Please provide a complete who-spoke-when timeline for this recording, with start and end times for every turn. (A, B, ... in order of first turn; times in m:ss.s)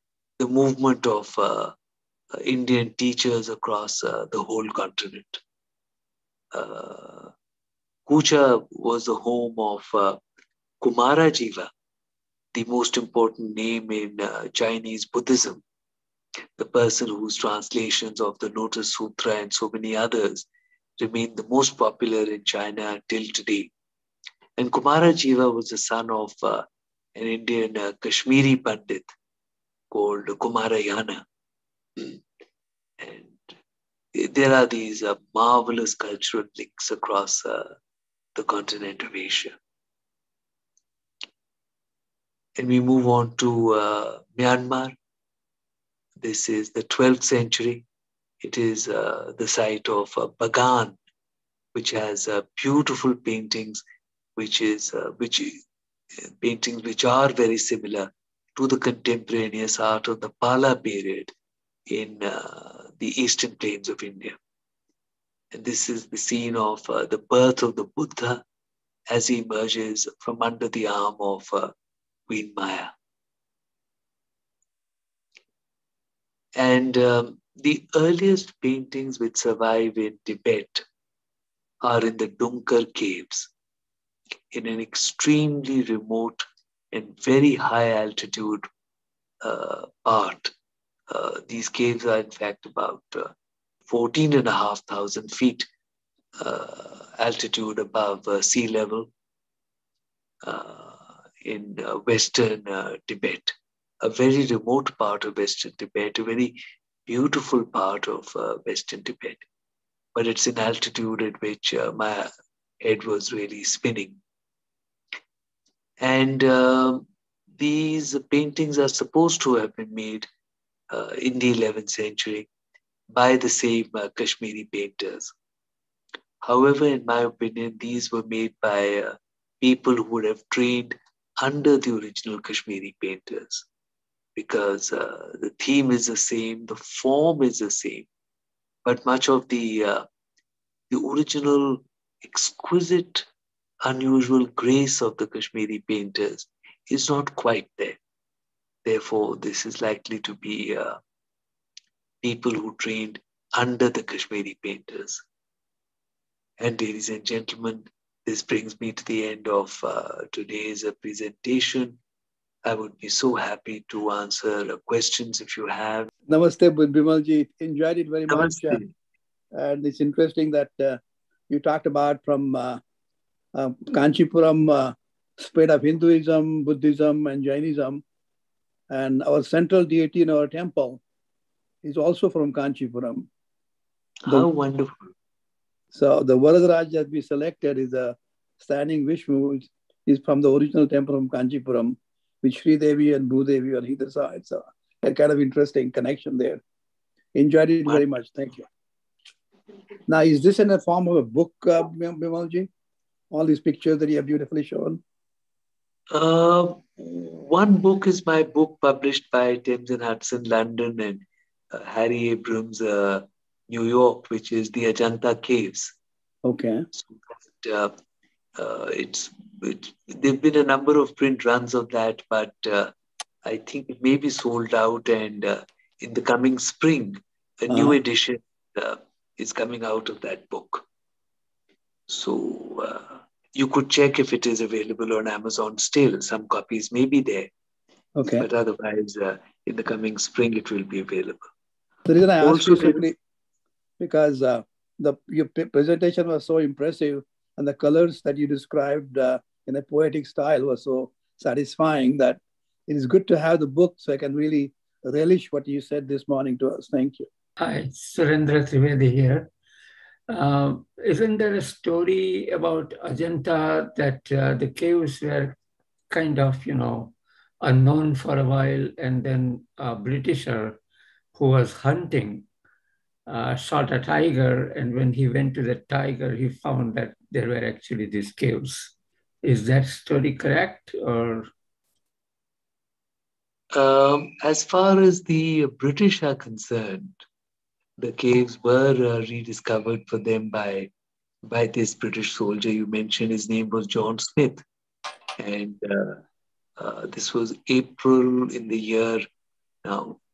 0:00.4-0:01.7 A
0:02.3-0:05.4 A
0:06.5-0:07.3 A
0:08.1-0:10.2 A
0:10.8-0:11.7 A
0:12.5-0:15.6 A
0:16.6-0:20.4 A
0:21.0-0:23.7 A
0:24.6-0:29.1 A
0:29.9-0:31.2 A
0:33.0-0:33.5 A
0:34.1-0:37.7 A
0:38.3-0:39.6 A
0:42.6-0:44.9 A
0:46.2-0:47.8 A
0:48.4-0:51.0 A
0:51.7-0:53.8 A
0:54.4-0:55.6 A
0:56.2-1:01.3 A
1:01.9-1:04.4 A
1:05.5-1:08.4 A
1:09.1-1:11.7 A
1:12.3-1:12.9 A
1:16.6-1:20.8 A
1:21.8-1:23.5 A
1:24.5-1:28.7 A
1:29.4-1:30.5 A
1:31.1-1:33.3 A
1:33.8-1:35.7 A
1:36.4-1:39.1 A
1:40.4-1:49.4 A
1:50.1-1:52.3 A
1:52.8-1:54.2 A
1:56.0-1:57.0 A
1:57.6-2:00.3 A
2:00.9-2:02.5 A
2:03.1-2:05.3 A
2:06.4-2:13.6 A
2:14.4-2:18.1 A
2:18.8-2:20.0 A
2:20.9-2:23.3 A
2:23.8-2:28.0 A
2:28.8-2:31.0 A
2:32.2-2:35.2 A
2:36.6-2:42.0 A
2:42.6-2:46.1 A
2:46.3-2:48.8 B
2:48.3-2:48.9 A
2:49.5-2:52.8 B
2:53.5-2:58.0 B
2:58.9-3:01.0 B
3:01.8-3:03.3 B
3:04.2-3:05.0 A
3:05.9-3:16.6 B
3:17.3-3:18.7 B
3:20.1-3:22.7 B
3:23.3-3:25.0 B
3:26.1-3:35.9 A
3:36.4-3:36.8 B
3:36.9-3:37.9 A
3:38.6-3:42.9 A
3:43.4-3:50.8 A
3:47.7-3:48.0 B
3:52.1-3:57.5 A
3:58.2-3:58.4 B
3:58.4-4:01.5 A
4:02.0-4:03.1 B
4:02.4-4:03.0 A
4:04.0-4:17.3 B
4:17.6-4:19.5 C
4:20.3-4:25.6 C
4:26.1-4:30.8 C
4:31.3-4:32.4 C
4:33.3-4:41.5 C
4:43.7-4:47.2 A
4:48.0-4:50.9 A
4:51.4-4:54.6 A
4:55.4-4:56.2 A
4:56.8-4:59.2 A
4:59.8-5:00.2 A